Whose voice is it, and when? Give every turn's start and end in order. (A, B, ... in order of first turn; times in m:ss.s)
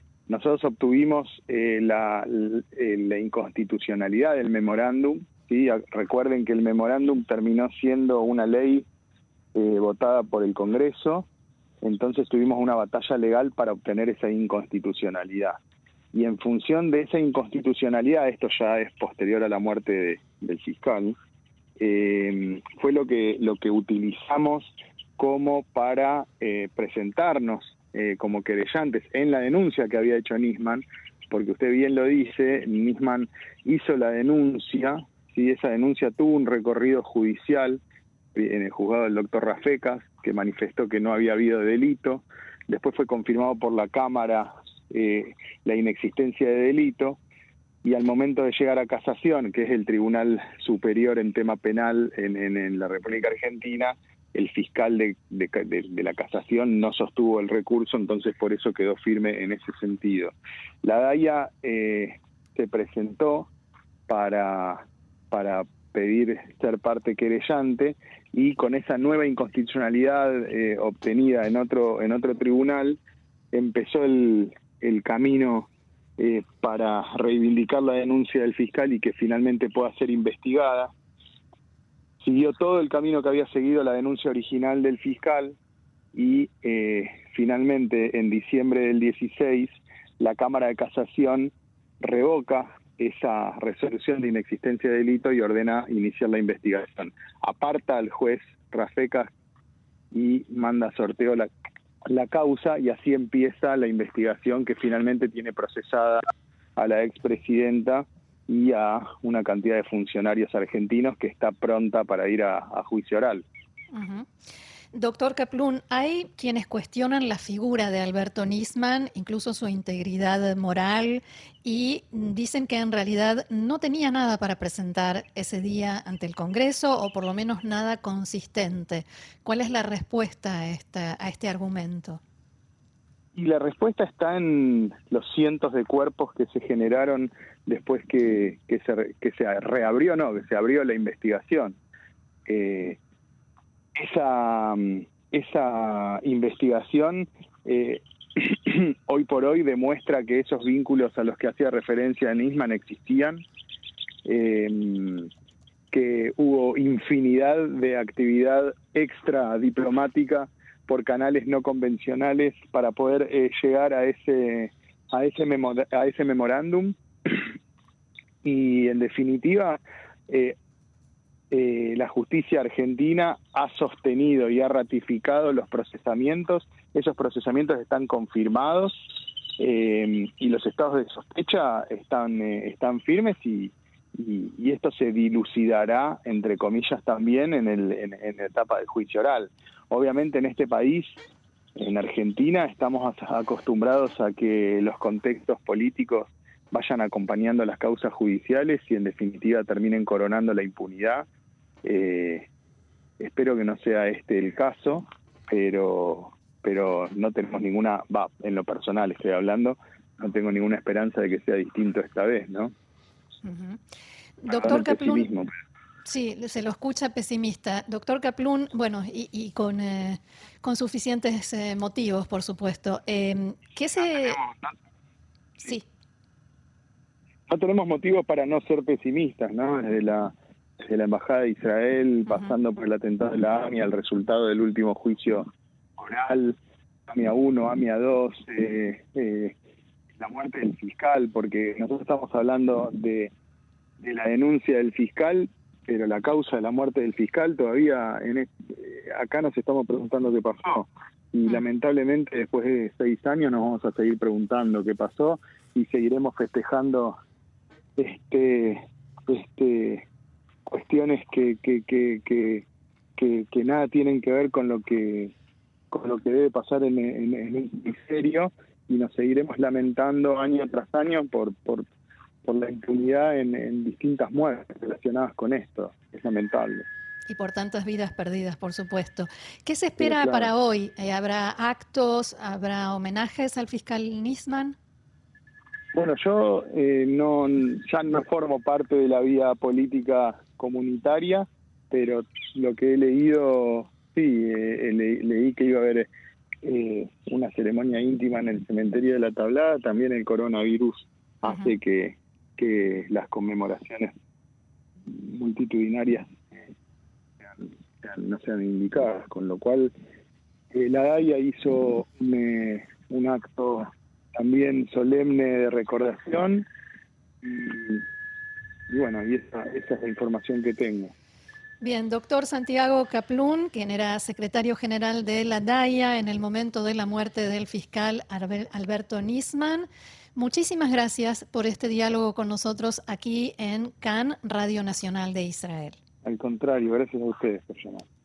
0:00.3-0:08.9 A
0:09.5-0:11.3 A
0:11.8-0:15.6 A
0:16.1-0:21.2 A
0:21.8-0:37.8 A
0:38.3-0:47.2 A
0:47.8-1:03.5 A
1:04.1-1:13.0 A
1:13.5-1:20.9 A
1:22.2-1:25.6 A
1:26.1-1:39.3 A
1:40.1-1:41.5 A
1:42.1-1:46.2 A
1:46.8-1:53.4 A
1:53.9-1:54.3 B
1:54.9-2:12.2 B
2:13.4-2:21.8 A
2:22.4-2:23.0 A
2:24.0-2:33.4 A
2:34.2-2:35.3 A
2:35.9-2:47.4 A
2:48.4-2:50.6 A
2:51.5-3:11.2 A
3:11.8-3:21.2 A
3:21.8-3:22.5 A
3:23.2-3:32.7 A
3:33.4-3:33.8 B
3:34.4-3:35.3 B
3:34.5-3:35.5 A
3:36.0-3:44.4 B
3:44.0-3:44.7 A
3:45.6-3:45.8 B
3:47.5-3:55.5 A
3:52.3-3:52.5 B
3:56.0-3:59.6 A
4:00.2-4:03.3 A
4:04.0-4:17.2 A
4:18.0-4:20.1 A
4:20.6-4:22.6 A
4:23.2-4:25.3 A
4:25.9-4:31.9 A
4:32.4-4:36.9 A
4:37.3-4:44.8 B
4:40.0-4:40.5 A
4:45.9-4:56.1 A
4:56.6-5:04.1 A
5:01.4-5:01.8 B
5:05.0-5:06.7 A
5:07.4-5:09.9 A
5:10.7-5:16.7 A
5:17.4-5:18.0 A
5:18.9-5:21.1 A
5:21.8-5:36.0 B
5:36.2-5:38.0 A